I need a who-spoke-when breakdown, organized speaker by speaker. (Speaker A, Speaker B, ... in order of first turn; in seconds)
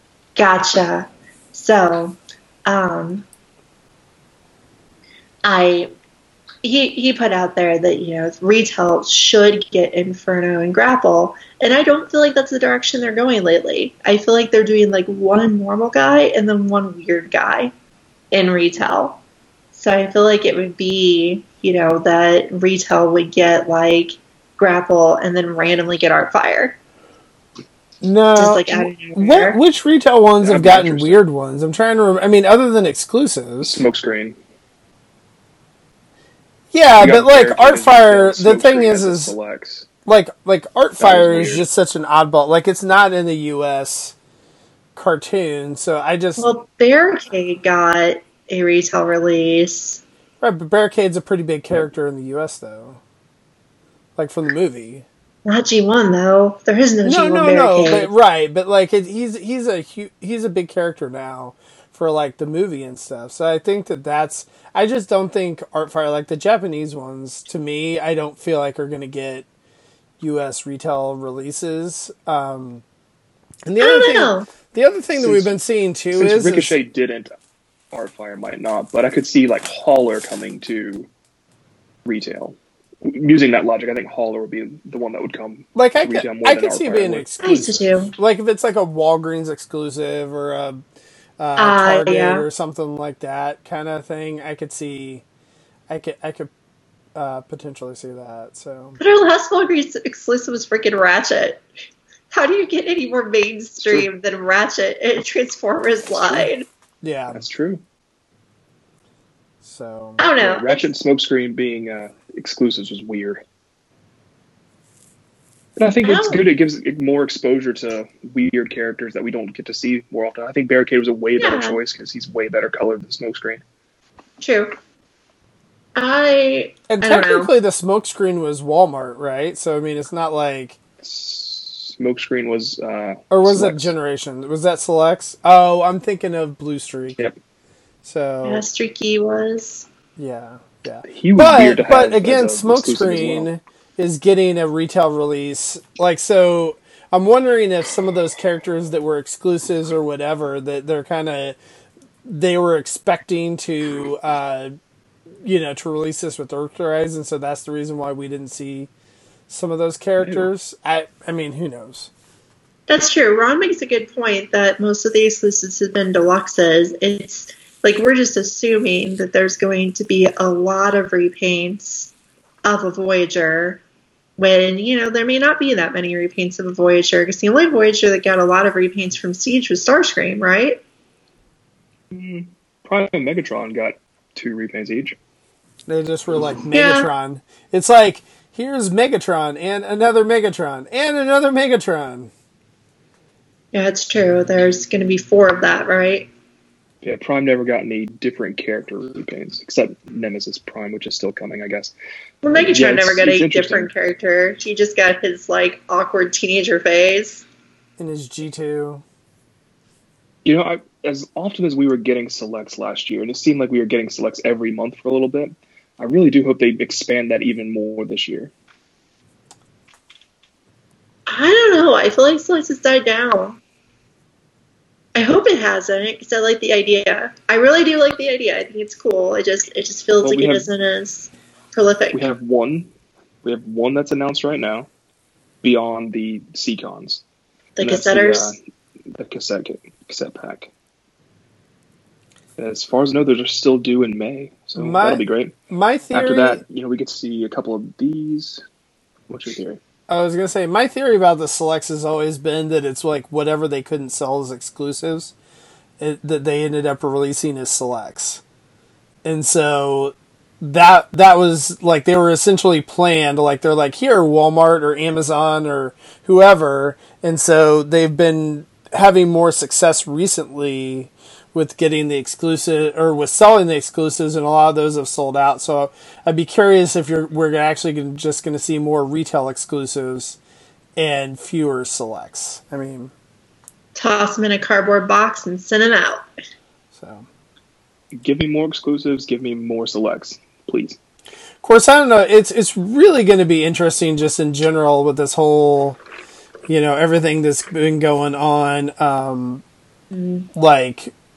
Speaker A: 0.3-3.2, 5.4-5.9, 6.6-17.7, 18.3-19.2, 19.7-26.8, 28.4-29.6, 46.4-50.0, 55.5-58.1, 73.8-74.5, 87.4-88.1, 91.6-92.4, 99.0-101.6, 102.3-106.7, 110.2-110.9, 116.0-116.4, 121.4-121.8, 124.4-124.8, 126.0-127.5, 138.4-139.9, 162.9-172.1, 172.6-173.8, 174.4-180.8, 186.7-187.1, 193.7-196.3, 202.4-207.4, 221.3-223.6, 225.1-232.2, 237.8-238.6, 283.9-286.2, 300.1-300.5
Speaker B: 28.0-33.9, 36.7-39.3, 40.0-44.1, 45.0-46.5, 50.4-53.0, 54.2-55.0, 57.0-69.5, 70.2-72.8, 73.6-76.7, 85.7-90.8, 91.4-95.2, 95.9-96.5, 97.1-99.0, 107.0-107.4, 109.6-110.2, 126.9-130.8, 133.3-137.3, 138.0-138.6, 140.2-151.6, 152.2-154.7, 155.4-158.9, 159.5-162.1, 185.9-192.3, 208.0-209.0, 244.8-246.6, 250.1-255.3, 256.0-258.4, 259.2-280.4, 280.9-283.1, 286.9-287.3, 291.6-296.0, 296.7-299.6, 300.5-301.1
Speaker C: 30.4-31.2, 33.6-34.4, 37.0-39.9, 41.0-41.6, 75.1-75.5, 76.1-77.3, 77.9-81.1, 82.0-87.4, 107.3-107.8, 110.4-113.4, 115.8-123.6, 131.0-133.9, 141.1-143.5, 160.2-160.5, 182.1-185.2, 197.0-201.9, 202.5-203.9, 210.4-218.5, 230.2-230.7, 232.1-232.9, 233.4-234.9, 235.6-237.2, 237.8-238.6, 239.1-240.7, 242.6-245.5, 246.1-248.6, 249.3-249.8, 288.2-291.0